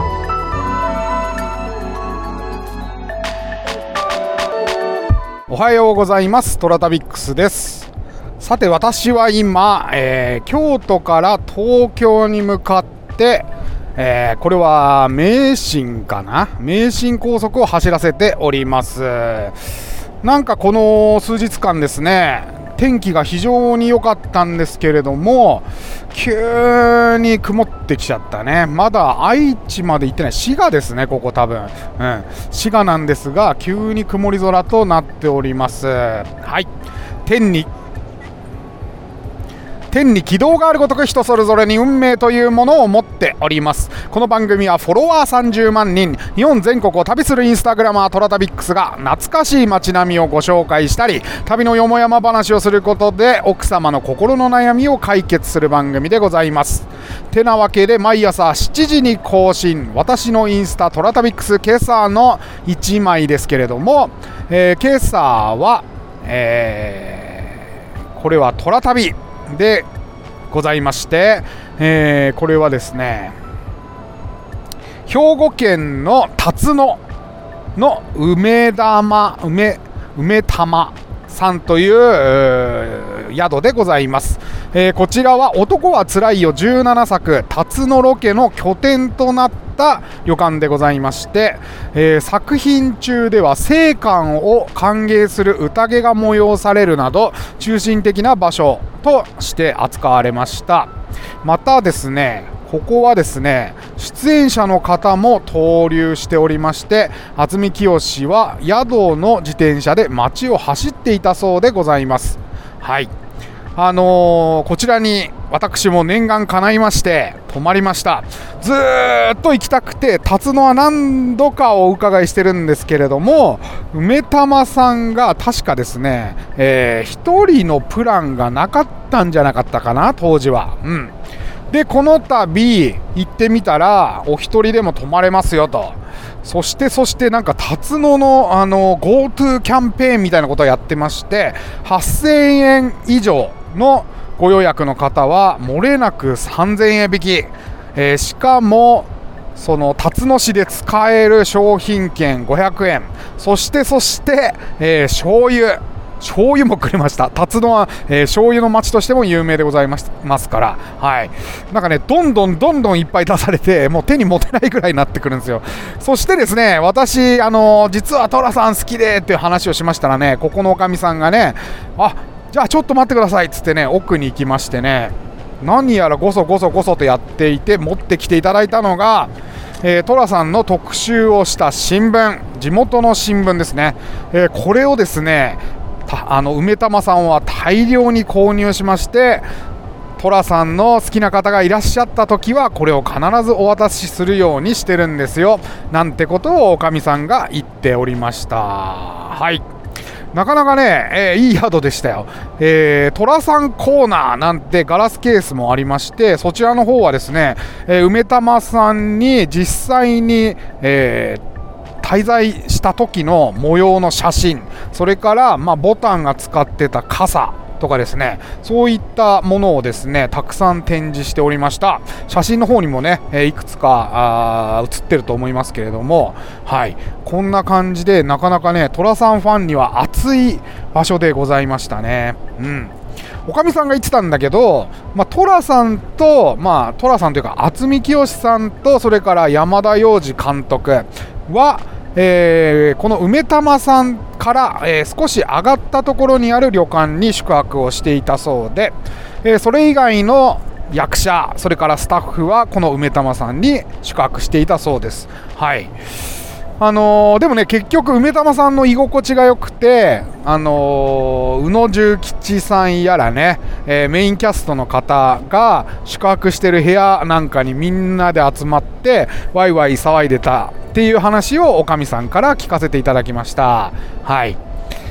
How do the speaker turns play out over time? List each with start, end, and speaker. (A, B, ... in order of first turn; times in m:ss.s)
0:05.5-0:07.9 A
0:08.4-0:19.6 A
0:20.2-0:36.7 A
0:37.2-0:37.7 A
0:39.9-1:07.6 A
1:08.1-1:09.9 A
1:10.5-1:13.4 A
1:15.0-1:17.0 A
1:17.8-1:40.9 A
1:41.4-1:53.1 A
1:53.8-2:11.1 A
2:11.7-3:09.4 A
3:10.2-3:19.6 A
3:20.3-3:31.4 A
3:32.0-3:52.9 A
3:53.4-4:15.9 A
4:16.8-4:34.6 A